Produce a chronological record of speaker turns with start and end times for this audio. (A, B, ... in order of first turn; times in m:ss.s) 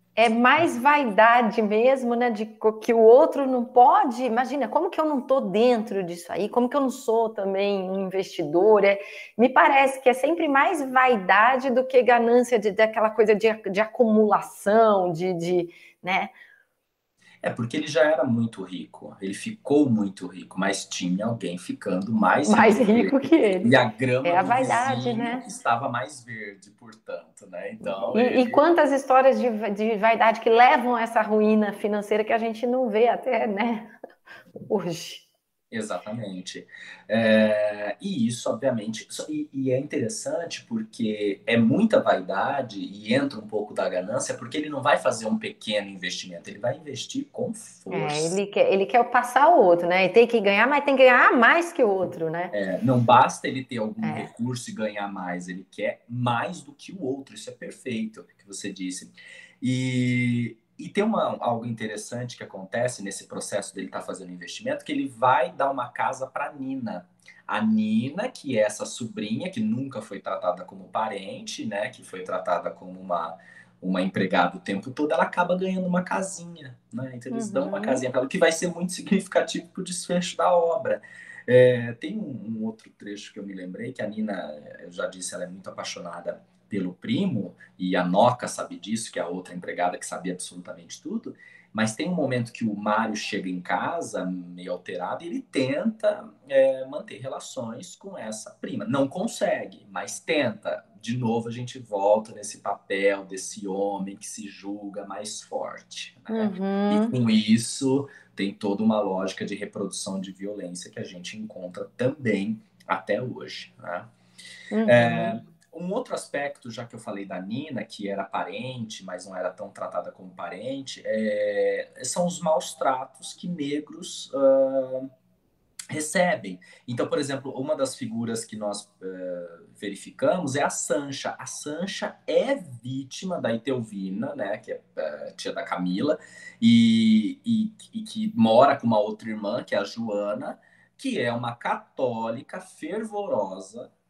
0:00.2-0:16.3 A
0:17.4-0:28.6 B
0:22.5-0:25.5 A
0:28.1-0:33.9 A
0:34.7-0:35.3 A
0:35.7-0:48.4 B
0:47.9-0:52.6 A
0:52.5-1:54.1 B
0:54.0-0:54.3 A
1:17.3-1:18.0 A
1:46.3-1:47.2 A
1:54.7-1:55.4 A
1:54.9-2:05.1 B
2:05.9-2:23.9 B